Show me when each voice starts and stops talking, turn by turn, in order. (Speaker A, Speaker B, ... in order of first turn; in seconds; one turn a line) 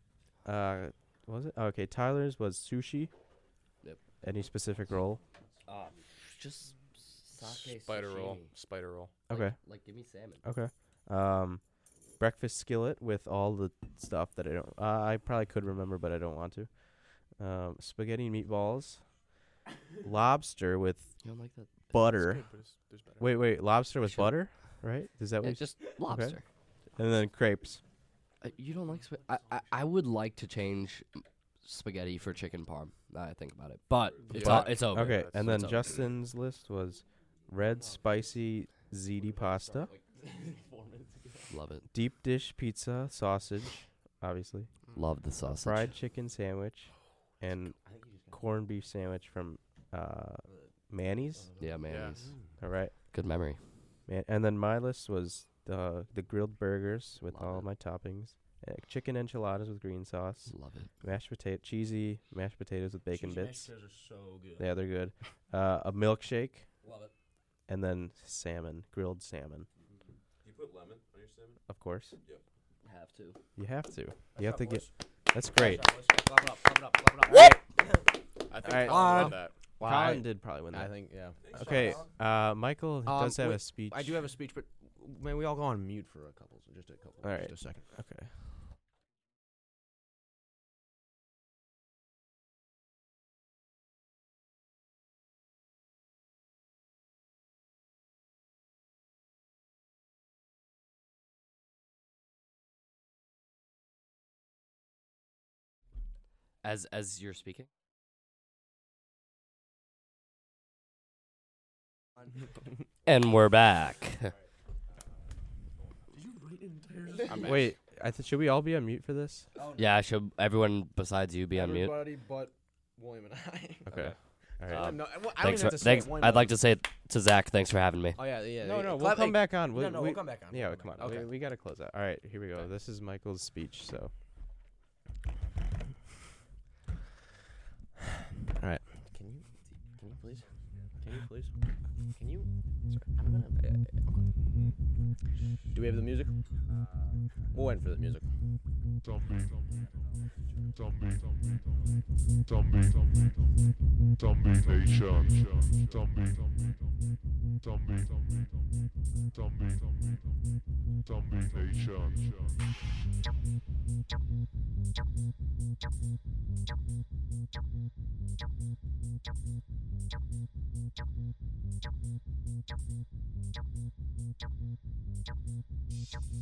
Speaker A: 0.5-3.1
Speaker A: 4.2-5.2
Speaker B: 5.7-8.5
Speaker C: 7.4-9.1
Speaker A: 9.3-9.6
Speaker B: 9.3-10.4
Speaker A: 10.4-19.1
Speaker A: 20.0-21.1
Speaker B: 21.2-21.9
Speaker A: 21.9-22.5
Speaker C: 22.1-23.4
Speaker A: 23.2-26.4
Speaker B: 24.1-24.4
Speaker B: 25.4-26.4
Speaker A: 27.0-27.8
Speaker B: 28.4-36.0
Speaker D: 34.0-34.3
Speaker C: 34.3-35.9
Speaker A: 34.4-39.9
Speaker E: 39.5-41.0
Speaker B: 41.5-41.9
Speaker A: 41.9-44.7
Speaker B: 45.0-46.0
Speaker A: 45.5-51.5
Speaker F: 47.8-48.4
Speaker F: 51.3-52.6
Speaker B: 51.6-52.3
Speaker C: 51.9-52.2
Speaker A: 52.6-53.0
Speaker B: 53.1-53.7
Speaker A: 54.1-63.7
Speaker B: 57.3-57.7
Speaker B: 60.5-60.9
Speaker E: 63.1-64.7
Speaker A: 64.6-66.7
Speaker E: 66.8-67.1
Speaker A: 67.7-69.7
Speaker D: 70.4-71.6
Speaker A: 71.7-72.2
Speaker B: 72.8-73.4
Speaker A: 73.6-75.9
Speaker E: 74.3-74.9
Speaker E: 75.5-76.3
Speaker F: 76.1-77.6
Speaker A: 77.3-77.6
Speaker C: 78.5-79.7
Speaker A: 78.6-81.0
Speaker F: 78.9-81.9
Speaker D: 81.4-82.1
Speaker A: 81.5-84.3
Speaker E: 81.5-82.1
Speaker F: 83.0-87.8
Speaker A: 87.2-88.3
Speaker B: 106.6-107.7
Speaker B: 113.1-114.3
Speaker E: 116.1-117.7
Speaker C: 117.3-117.7
Speaker A: 117.4-119.5
Speaker E: 119.6-120.0
Speaker B: 119.8-122.1
Speaker F: 121.5-124.1
Speaker A: 123.9-125.0
Speaker F: 124.7-126.6
Speaker B: 124.7-128.2
Speaker F: 128.2-129.1
Speaker A: 128.6-134.1
Speaker E: 128.9-131.3
Speaker F: 131.0-131.3
Speaker F: 138.6-139.4
Speaker F: 140.0-140.5
Speaker F: 141.0-141.5
Speaker F: 142.2-143.7
Speaker E: 143.6-144.1
Speaker F: 145.7-146.3
Speaker D: 146.7-147.1
Speaker F: 147.5-148.2